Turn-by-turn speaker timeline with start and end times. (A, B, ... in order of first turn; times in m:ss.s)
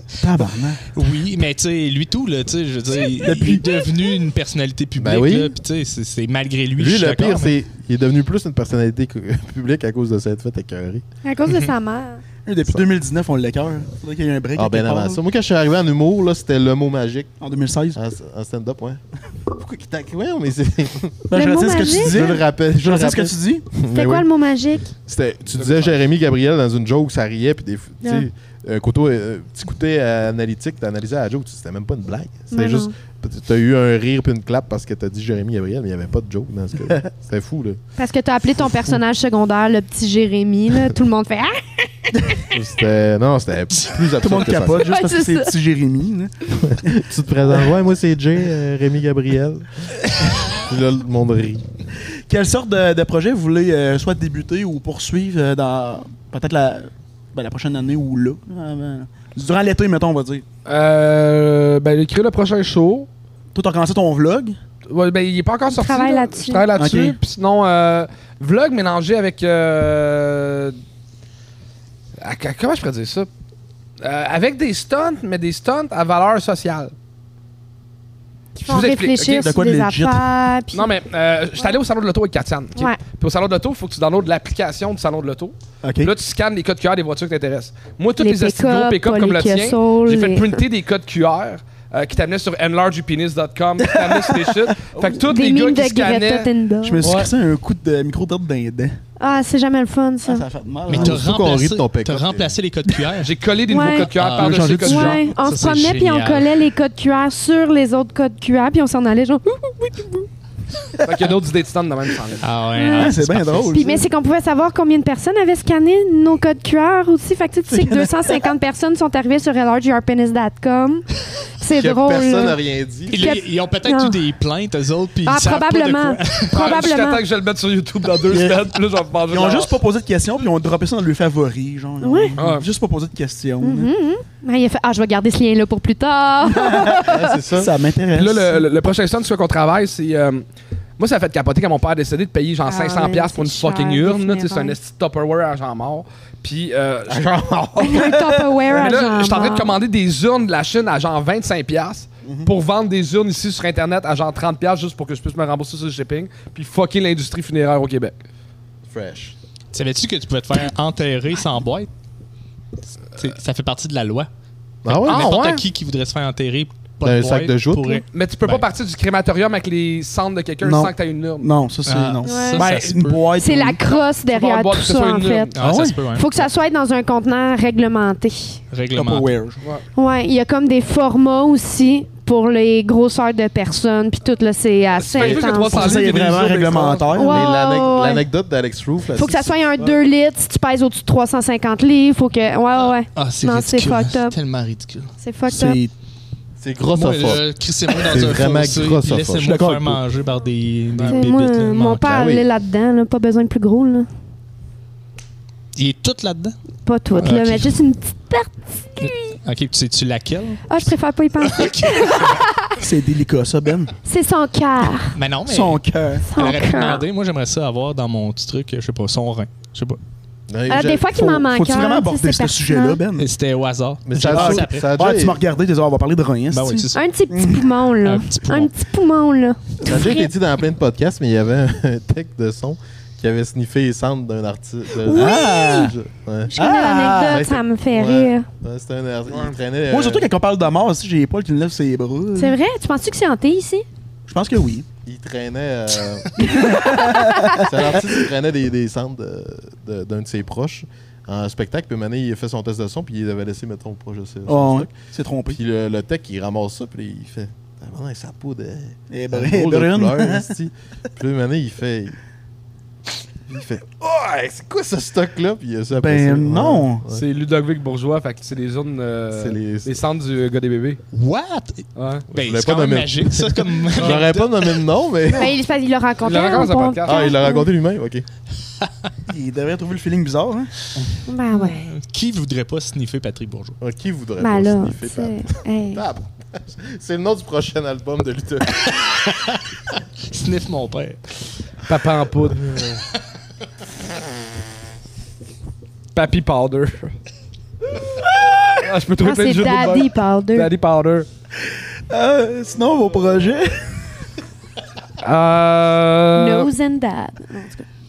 0:00.2-0:00.8 A
0:00.9-0:07.5 B
0:03.2-0:03.6 A
0:05.0-0:05.5 C
0:06.8-0:11.0 C
0:11.2-0:12.2 D
0:12.4-0:15.2 A
0:14.6-0:17.3 C
0:17.4-0:18.0 A
0:17.9-0:19.0 C
0:19.5-0:21.2 C
0:21.3-0:23.6 A
0:21.3-0:22.2 D
0:22.0-0:24.3 C
0:23.9-0:24.9 D
0:25.0-0:37.8 C
0:25.6-0:25.9 E
0:28.0-0:28.3 D
0:32.5-0:32.9 D
0:38.0-0:42.5 D
0:38.6-0:39.0 C
0:42.5-0:44.9 C
0:44.2-0:47.0 A
0:44.8-0:45.5 D
0:46.6-0:51.6 C
0:52.3-1:00.4 A
1:00.6-1:03.1 E
1:03.5-1:04.6 A
1:04.9-1:10.8 E
1:05.7-1:06.7 D
1:06.7-1:07.2 A
1:12.2-1:13.3 E
1:14.0-1:16.9 E
1:18.6-1:20.9 D
1:18.7-1:19.4 E
1:19.2-1:20.2 A
1:20.7-1:36.5 E
1:25.8-1:26.1 A
1:28.2-1:30.6 D
1:33.9-1:35.2 A
1:35.2-1:37.1 D
1:36.8-1:39.0 A
1:37.0-1:37.3 E
1:39.2-1:40.4 D
1:40.2-1:41.2 A
1:40.9-1:43.3 B
1:40.9-1:42.6 C
1:43.2-1:45.3 E
1:43.7-1:44.1 D
1:44.1-1:46.5 B
1:44.4-1:45.3 A
1:44.7-1:50.3 D
1:51.0-1:52.5 E
1:52.4-1:53.8 B
1:52.7-1:53.2 D
1:52.9-1:54.1 A
1:53.7-2:01.0 D
1:57.7-1:58.5 A
2:01.6-2:02.6 D
2:01.7-2:03.3 C
2:03.1-2:04.2 D
2:03.1-2:06.6 B
2:05.2-2:07.2 D
2:06.5-2:09.7 E
2:08.3-2:08.6 A
2:09.3-2:13.9 A
2:12.0-2:12.3 D
2:12.4-2:12.6 E
2:13.6-2:17.4 D
2:16.5-2:17.0 A
2:17.1-2:17.7 C
2:17.5-2:18.6 A
2:18.1-2:20.4 E
2:21.0-2:28.2 E
2:22.6-2:24.8 D
2:27.1-2:27.8 C
2:27.8-2:29.8 D
2:28.7-2:38.2 E
2:32.2-2:32.5 A
2:38.9-2:39.3 C
2:39.7-2:41.9 B
2:43.0-2:44.3 B
2:44.8-2:45.3 C
2:44.8-2:48.6 B
2:45.0-2:45.6 E
2:47.0-2:48.0 C
2:48.1-2:51.5 E
2:50.6-2:53.8 A
2:51.8-2:53.3 B
2:52.2-2:52.7 D
2:53.4-2:55.5 D
2:53.9-2:55.6 E
2:55.6-2:56.5 B
2:55.6-2:56.0 A
2:56.1-2:58.6 D
2:58.7-2:59.3 B
2:58.9-2:59.6 A
3:00.0-3:06.0 D
3:05.0-3:07.1 E
3:05.6-3:07.5 A
3:07.1-3:08.2 D
3:07.2-3:09.9 C
3:09.1-3:14.4 D
3:13.1-3:15.1 B
3:15.2-3:15.8 D
3:15.5-3:15.9 A
3:16.6-3:19.5 C
3:16.9-3:22.1 B
3:19.4-3:20.0 A
3:20.9-3:21.2 E
3:21.0-3:24.1 D
3:22.0-3:22.4 C
3:25.7-3:26.6 B
3:26.8-3:29.3 D
3:27.2-3:27.8 B
3:29.0-3:32.4 B
3:30.7-3:32.8 D
3:32.8-3:33.9 A
3:34.0-3:35.2 D
3:35.1-3:35.8 B
3:35.4-3:36.2 A
3:36.2-3:37.0 D
3:36.3-3:40.0 B
3:40.5-3:41.1 C
3:40.7-3:43.0 D
3:41.1-3:43.3 A
3:43.2-3:44.9 B
3:44.0-3:45.4 C
3:44.3-3:47.7 A
3:46.5-3:47.0 B
3:46.9-3:50.3 D
3:48.0-3:48.7 B
3:49.8-3:56.6 C
3:55.0-3:55.9 D
3:55.1-3:55.9 A
3:56.5-3:58.5 D
3:56.5-3:57.4 A
3:57.2-4:00.3 C
3:59.9-4:02.6 A
4:02.4-4:03.8 D
4:04.3-4:04.8 A
4:05.0-4:06.4 C
4:06.4-4:07.7 A
4:06.5-4:07.6 D
4:07.6-4:14.9 C
4:14.5-4:15.6 A
4:15.5-4:22.2 C
4:19.1-4:20.5 A
4:23.5-4:27.2 C
4:26.0-4:27.0 A
4:27.1-4:31.0 E
4:29.3-4:29.9 C
4:31.1-4:34.8 B
4:32.0-4:32.2 E
4:32.3-4:35.6 C
4:35.3-4:37.7 D
4:36.2-4:37.3 E
4:37.0-4:38.2 C
4:39.3-4:40.7 A
4:41.3-4:41.9 D
4:41.5-4:43.8 B
4:43.8-4:49.0 C
4:44.4-4:46.0 D
4:48.9-4:49.6 B
4:50.2-4:51.4 B
4:51.9-4:52.6 E
4:52.6-4:53.0 C
4:56.1-4:57.1 E
4:58.7-5:01.3 E
4:59.2-5:00.7 D
5:02.1-5:04.0 A
5:05.2-5:06.7 E
5:06.3-5:07.8 D